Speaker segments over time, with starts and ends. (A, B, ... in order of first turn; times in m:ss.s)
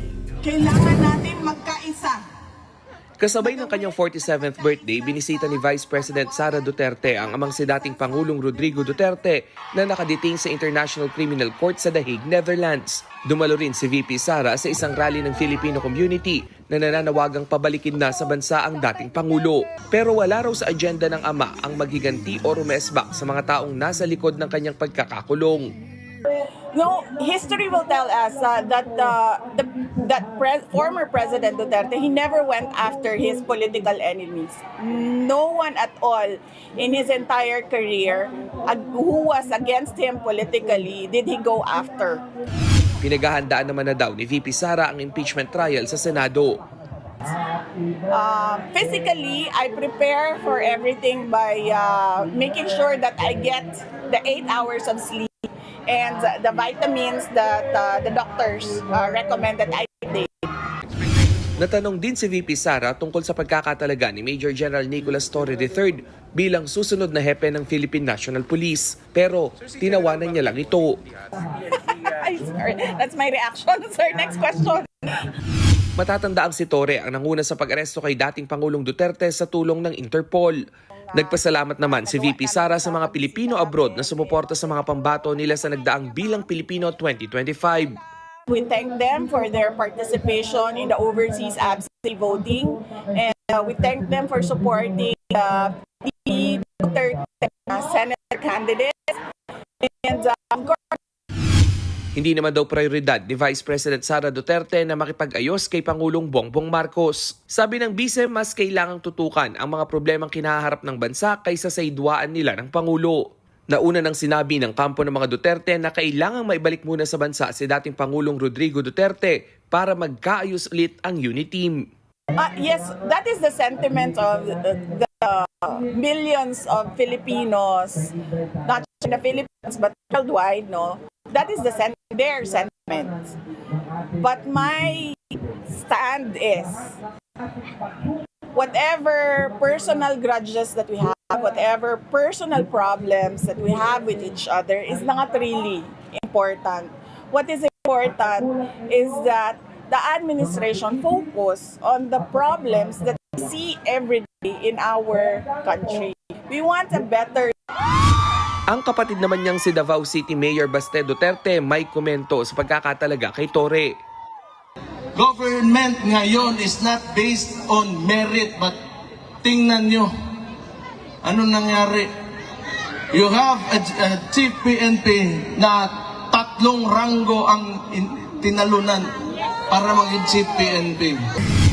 0:00.4-0:02.2 A
0:03.2-0:25.7 B
0:26.3-0:42.2 A
0:43.0-0:46.6 B
0:48.1-1:00.5 A
1:01.6-1:11.0 B
1:11.4-1:15.3 A
1:16.0-1:20.6 B
1:21.1-1:24.6 A
1:21.1-1:28.0 B
1:28.5-1:39.2 A
1:39.8-1:41.0 A
1:42.2-2:01.8 B
2:02.3-2:13.4 A
2:14.2-2:17.0 A
2:18.5-2:37.5 A
2:38.7-2:43.9 B
2:45.2-2:48.8 C
2:49.4-2:50.1 C
2:51.2-2:52.1 C
2:53.1-2:59.1 C
2:59.7-3:01.2 C